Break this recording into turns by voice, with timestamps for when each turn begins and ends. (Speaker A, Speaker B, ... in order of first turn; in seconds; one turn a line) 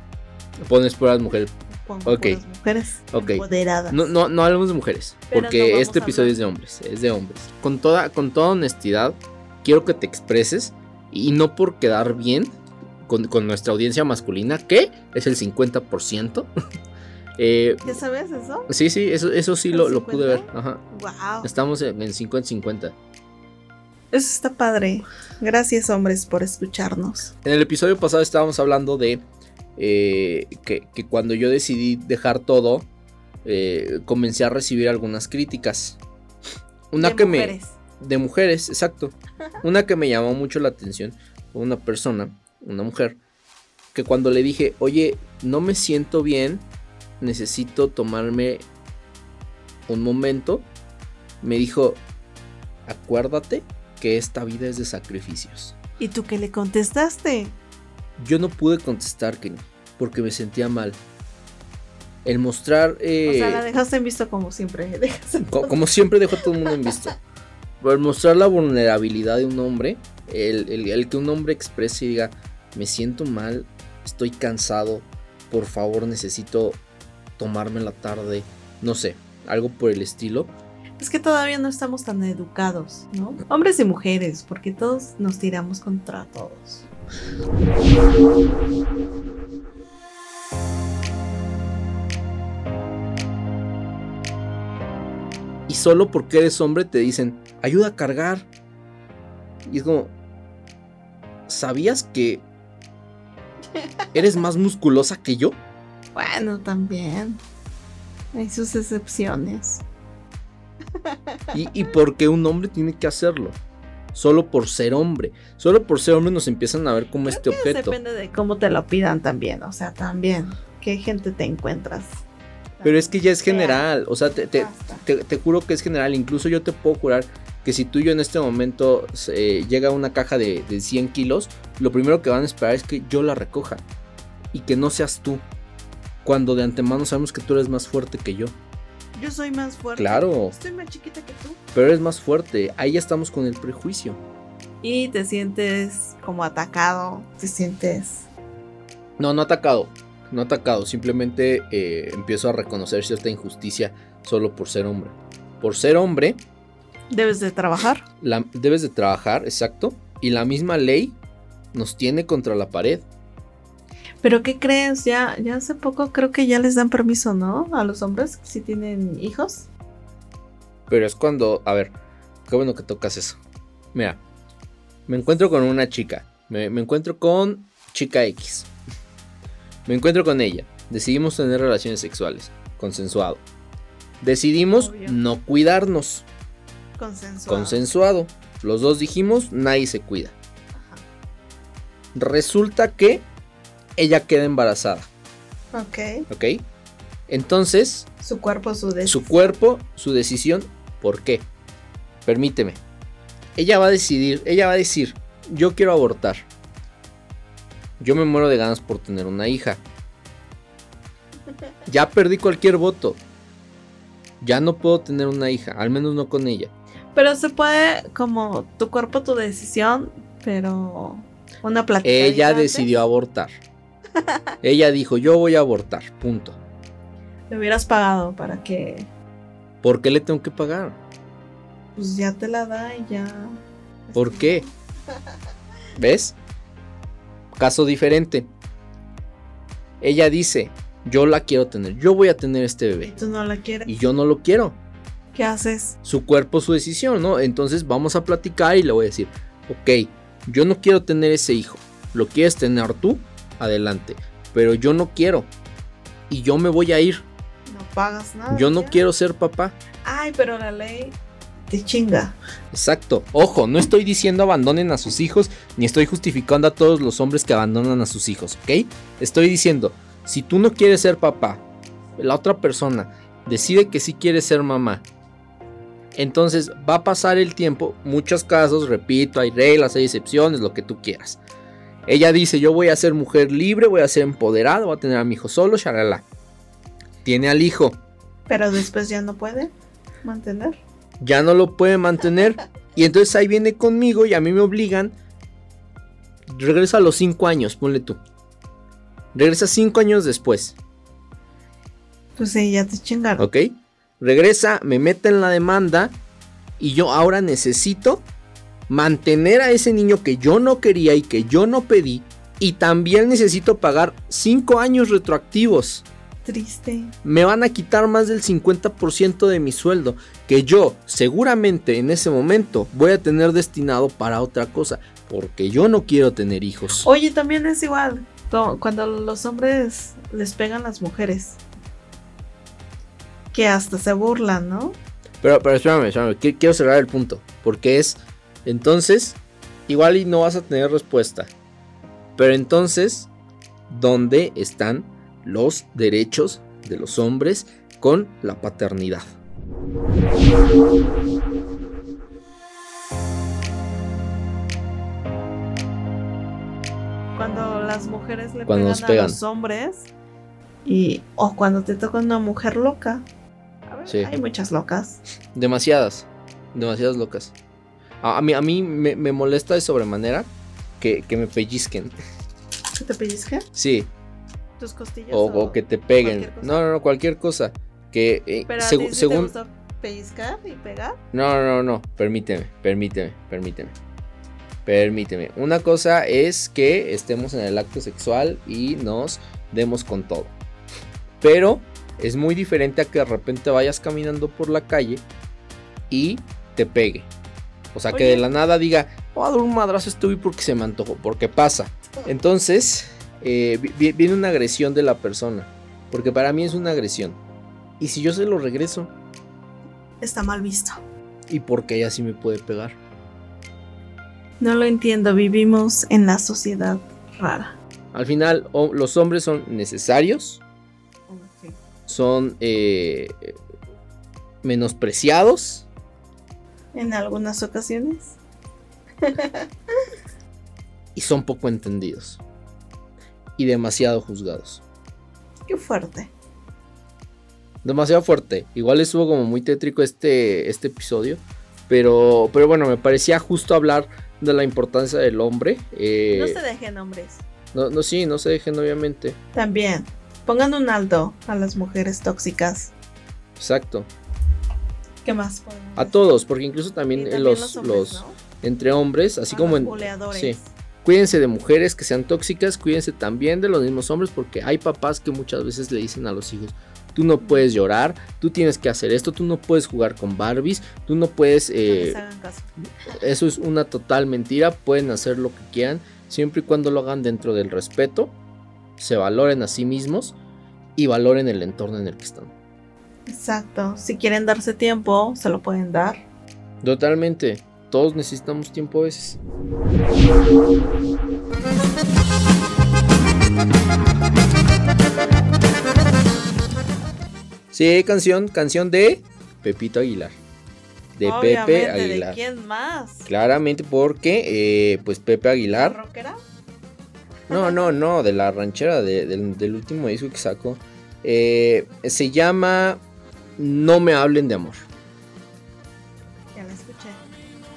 Speaker A: 0.6-1.5
Speaker B: 1.7-4.1
Speaker A: 2.0-2.4
Speaker A: 3.1-12.5
Speaker B: 5.3-6.4
Speaker A: 13.1-16.5
Speaker A: 17.4-18.0
Speaker B: 17.9-18.7
Speaker A: 18.7-20.8
Speaker B: 19.7-21.5
Speaker A: 21.4-22.9
Speaker B: 24.1-27.3
Speaker A: 27.4-29.2
Speaker A: 29.8-32.9
Speaker A: 33.5-36.0
Speaker A: 36.9-43.2
Speaker B: 37.0-37.8
Speaker A: 43.9-46.7
Speaker A: 47.2-48.6
Speaker A: 49.9-50.7
Speaker A: 51.4-52.0
Speaker A: 52.9-55.8
Speaker B: 56.0-57.6
Speaker A: 58.2-61.0
Speaker A: 62.2-63.6
Speaker B: 63.2-65.7
Speaker A: 65.4-67.2
Speaker B: 66.5-66.9
Speaker A: 67.8-76.8
Speaker A: 77.4-80.5
Speaker B: 81.0-86.9
Speaker A: 95.7-98.5
Speaker A: 99.7-100.1
Speaker A: 101.5-102.5
Speaker A: 104.1-105.6
Speaker B: 106.1-107.4
Speaker B: 108.3-109.8
Speaker B: 111.0-111.6
Speaker A: 111.5-113.6
Speaker A: 114.1-118.0
Speaker B: 117.2-122.2
Speaker B: 122.8-123.9
Speaker A: 122.8-133.8
Speaker B: 124.4-125.0
Speaker A: 134.5-135.4
Speaker A: 136.2-138.6
Speaker B: 139.2-141.6
Speaker A: 140.0-140.6
Speaker A: 141.7-144.2
Speaker B: 144.8-148.3
Speaker A: 149.2-156.4
Speaker B: 157.1-158.0
Speaker A: 158.2-161.2
Speaker A: 161.7-163.1
Speaker B: 164.2-169.7
Speaker A: 170.9-171.9
Speaker A: 172.5-173.4
Speaker A: 173.9-174.2
Speaker A: 175.1-178.7
Speaker A: 179.9-183.4
Speaker A: 184.2-186.3
Speaker B: 184.8-185.2
Speaker B: 187.0-187.8
Speaker A: 187.5-190.3
Speaker B: 190.8-191.0
Speaker A: 192.2-193.3
Speaker A: 194.0-195.1
Speaker B: 195.7-196.3
Speaker A: 196.3-196.6
Speaker A: 197.3-198.1
Speaker B: 198.2-199.6
Speaker A: 199.1-201.5
Speaker A: 202.2-202.8
Speaker A: 203.6-206.5
Speaker A: 208.0-209.8
Speaker A: 211.9-213.2
Speaker A: 214.4-216.7
Speaker B: 217.1-222.9
Speaker A: 222.0-223.5
Speaker A: 224.6-226.6
Speaker B: 227.5-229.1
Speaker A: 229.8-231.0
Speaker B: 232.0-234.7
Speaker A: 234.2-234.7
Speaker A: 236.0-236.4
Speaker A: 237.6-238.5
Speaker A: 240.0-243.1
Speaker B: 243.0-243.9
Speaker A: 243.9-244.8
Speaker B: 245.3-246.0
Speaker A: 246.0-255.5
Speaker A: 256.3-257.3
Speaker B: 257.7-259.0
Speaker A: 258.5-259.8
Speaker B: 260.0-262.4
Speaker A: 262.7-271.6
Speaker A: 272.2-275.1
Speaker A: 276.1-281.4
Speaker A: 282.1-286.2
Speaker A: 287.2-288.0
Speaker B: 288.5-289.7
Speaker B: 290.2-290.8
Speaker A: 291.2-295.2
Speaker A: 296.5-298.2
Speaker A: 299.3-300.8
Speaker B: 302.4-303.5
Speaker A: 303.4-306.2
Speaker A: 306.8-308.3
Speaker A: 308.9-316.1
Speaker B: 316.4-317.1
Speaker A: 317.2-327.1
Speaker B: 327.0-331.6
Speaker B: 333.5-335.0
Speaker A: 335.4-341.5
Speaker A: 342.4-343.3
Speaker A: 343.9-349.3
Speaker B: 357.4-360.1
Speaker A: 358.7-359.4
Speaker B: 360.9-363.2
Speaker B: 363.9-365.2
Speaker A: 364.1-364.3
Speaker A: 365.6-367.6
Speaker A: 368.2-370.5
Speaker A: 371.0-372.1
Speaker B: 372.9-373.7
Speaker A: 373.7-374.1
Speaker B: 374.8-376.9
Speaker A: 375.3-379.5
Speaker B: 378.7-381.2
Speaker A: 381.3-383.9
Speaker A: 384.9-390.5
Speaker A: 391.4-395.2
Speaker A: 396.1-397.3
Speaker A: 397.9-407.4
Speaker B: 398.1-398.5
Speaker A: 408.0-409.1
Speaker B: 410.2-411.0
Speaker A: 411.5-413.0
Speaker B: 414.6-417.8
Speaker A: 418.1-420.6
Speaker B: 421.3-421.7
Speaker A: 422.1-423.6
Speaker A: 424.6-425.9
Speaker B: 426.9-428.4
Speaker B: 429.2-429.6
Speaker A: 431.1-432.4
Speaker A: 433.6-434.8
Speaker B: 435.7-436.3
Speaker A: 437.8-446.6
Speaker B: 446.3-447.4
Speaker A: 447.7-449.4
Speaker B: 449.5-452.9
Speaker A: 453.6-454.1
Speaker B: 455.2-456.2
Speaker A: 456.0-472.2
Speaker B: 457.1-458.4
Speaker B: 459.5-460.7
Speaker B: 471.9-472.7
Speaker A: 473.2-478.3
Speaker A: 479.0-480.4
Speaker A: 481.0-482.5
Speaker B: 483.3-486.2
Speaker A: 486.8-489.4
Speaker A: 497.7-500.4
Speaker A: 501.2-502.4
Speaker B: 501.2-503.3
Speaker A: 503.3-506.0
Speaker B: 505.7-506.4
Speaker B: 507.5-507.9
Speaker A: 507.5-513.0
Speaker A: 513.6-514.9
Speaker B: 516.5-517.2